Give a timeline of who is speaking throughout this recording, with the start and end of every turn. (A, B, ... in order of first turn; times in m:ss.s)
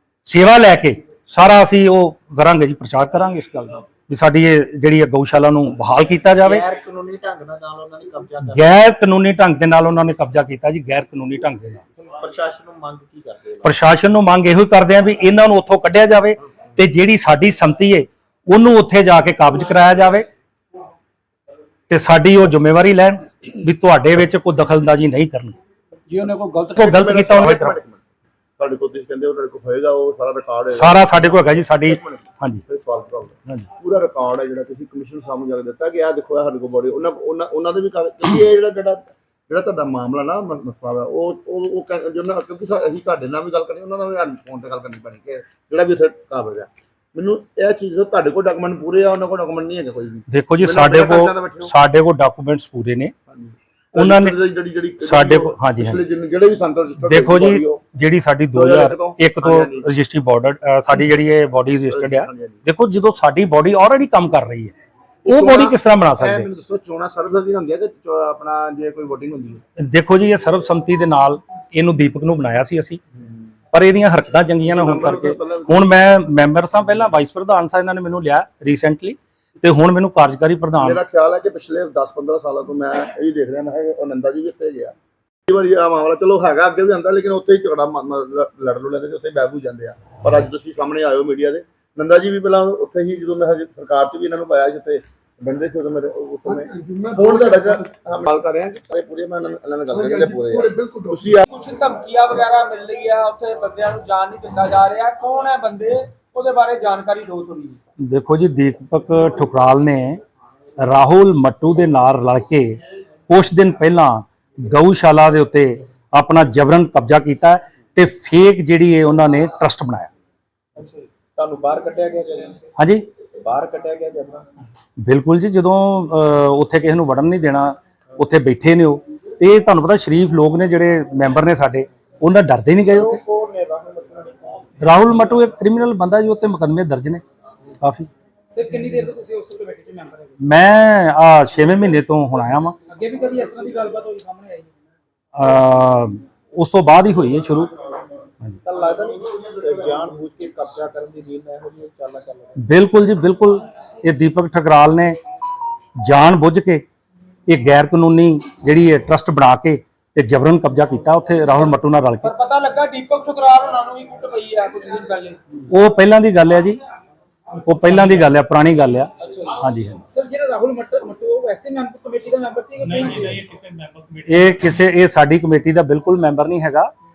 0:00.2-0:06.6 A
0:06.4-0:08.6 B
0:08.5-0:11.8 A
0:12.0-0:13.7 B
0:13.6-0:20.3 A
0:21.9-0:25.6 A
0:26.1-0:26.8 C
0:26.7-0:27.8 A
0:26.8-0:28.0 D
0:28.6-0:51.7 D
0:30.7-0:32.6 A
0:50.3-0:53.1 A
0:53.3-0:57.8 D
0:53.9-0:54.4 A
0:55.0-0:56.0 A
0:57.0-1:04.7 A
0:58.5-0:59.8 D
1:01.9-1:02.6 D
1:05.2-1:06.5 A
1:05.2-1:09.6 D
1:09.8-1:13.0 A
1:13.7-1:21.0 A
1:14.6-1:15.8 D
1:20.8-1:24.9 D
1:25.5-1:41.4 D
1:41.5-1:47.8 E
1:48.0-1:50.2 A
1:50.8-2:00.1 A
2:00.8-2:02.6 B
2:02.8-2:03.0 A
2:03.4-2:04.4 B
2:05.0-2:13.2 A
2:12.8-2:14.7 B
2:14.8-2:17.2 A
2:17.8-2:18.1 A
2:18.5-2:20.5 C
2:20.4-2:22.8 A
2:22.9-2:24.7 C
2:25.4-2:27.7 A
2:28.6-2:32.6 B
2:32.6-2:35.2 A
2:36.0-2:36.8 A
2:37.5-2:42.3 A
2:42.2-2:45.5 E
2:45.7-2:46.8 A
2:47.6-2:50.0 A
2:49.2-2:53.4 C
2:53.0-2:54.0 B
2:54.2-2:56.9 A